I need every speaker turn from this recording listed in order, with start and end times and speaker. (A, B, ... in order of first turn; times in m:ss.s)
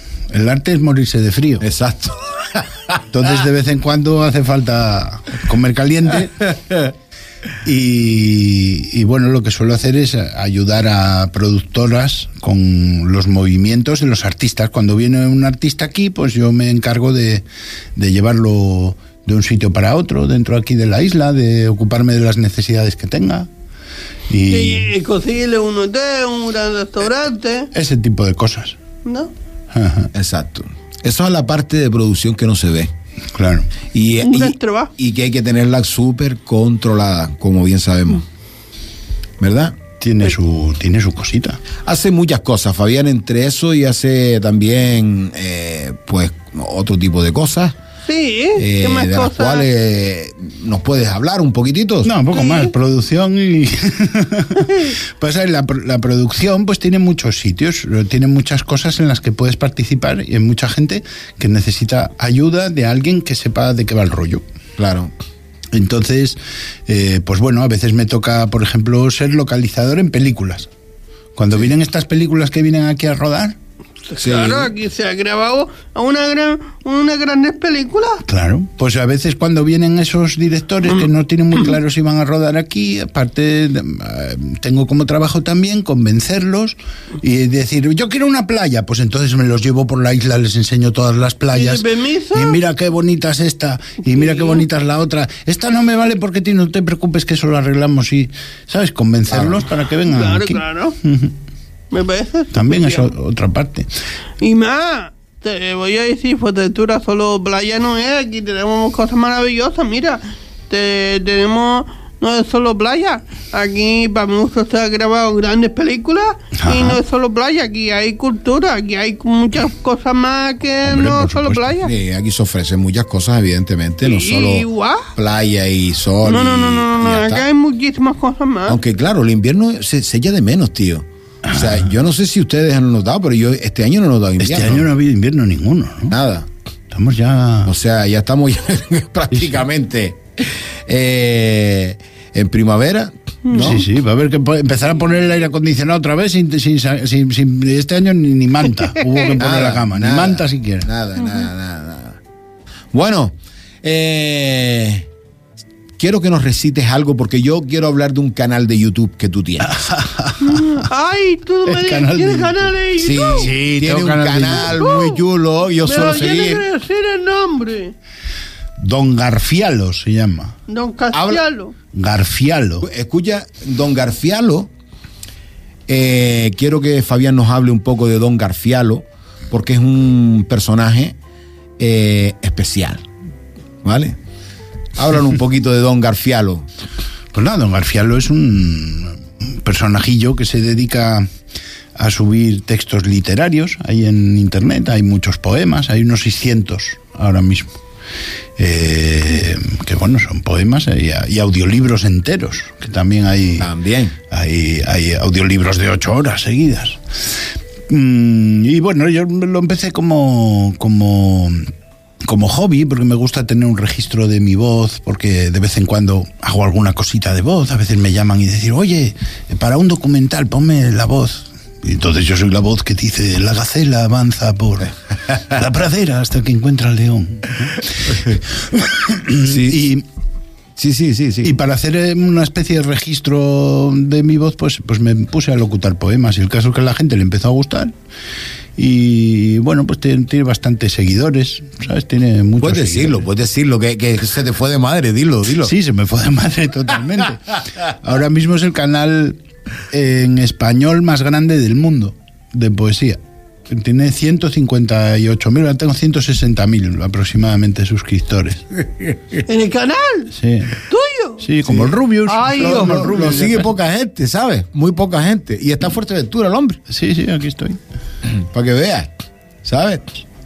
0:00.3-0:01.6 A
0:01.6-0:03.0 B
0:03.1-0:06.8 A
0:07.6-0:17.4 A
0:18.0-0:23.5 A
0:24.3-0:24.9 A
0:24.5-0:27.7 C
0:27.7-0:28.8 A
0:29.0-0:29.3 C
0:29.7-0:30.1 A
0:30.1-0:32.9 B
0:33.3-0:33.7 A
0:33.9-0:38.2 B
0:34.2-0:34.9 C
0:39.4-0:39.8 B
0:40.0-0:41.6 A
0:41.8-0:47.8 B
0:48.1-0:49.7 C
0:48.6-0:52.2 B
0:52.0-1:04.4 A
0:52.3-0:52.7 C
1:04.8-1:05.1 B
1:05.7-1:10.7 A
1:11.4-1:13.6 A
1:14.1-1:18.2 C
1:14.2-1:14.7 B
1:18.3-1:41.3 A
1:31.5-1:32.6 C
1:34.1-1:34.6 C
1:39.3-1:39.6 B
1:40.1-1:41.0 C
1:41.9-1:43.1 C
1:42.5-1:43.9 A
1:44.4-2:01.9 C
1:56.6-1:57.0 A
2:00.8-2:01.7 A
2:01.8-2:07.5 B
2:04.0-2:05.1 C
2:06.2-2:08.8 C
2:08.7-2:14.9 B
2:11.5-2:11.8 A
2:14.4-2:16.1 A
2:16.1-2:16.5 B
2:16.9-2:17.7 A
2:17.6-2:23.9 B
2:23.5-2:23.8 C
2:23.6-2:30.9 A
2:29.4-2:32.2 B
2:32.9-2:35.1 B
2:36.0-2:39.8 B
2:39.6-2:40.9 A
2:40.4-2:43.5 C
2:41.7-2:42.7 A
2:43.0-2:46.6 B
2:43.4-2:44.8 A
2:44.6-2:45.2 C
2:45.8-2:48.0 C
2:48.8-2:50.5 A
2:50.7-2:51.7 C
2:51.1-2:51.4 B
2:51.9-2:52.9 A
2:52.8-2:54.7 B
2:55.9-3:01.2 B
3:01.8-3:03.0 B
3:03.8-3:04.2 B
3:05.0-3:06.7 B
3:07.3-3:11.3 A
3:12.0-3:17.7 A
3:18.6-3:23.7 A
3:23.6-3:24.2 B
3:24.3-3:27.0 A
3:27.9-3:31.7 A
3:32.2-3:50.0 A
3:49.4-3:49.9 B
3:50.8-3:51.5 B
3:51.4-3:57.9 A
3:58.8-4:03.2 A
4:02.6-4:05.8 B
4:05.6-4:09.4 A
4:09.9-4:18.7 A
4:19.5-4:20.3 C
4:20.3-4:20.8 A
4:20.9-4:21.5 C
4:21.4-4:23.7 A
4:21.6-4:26.8 B
4:22.3-4:23.5 C
4:26.9-4:27.8 A
4:28.2-4:29.1 B
4:29.6-4:30.1 B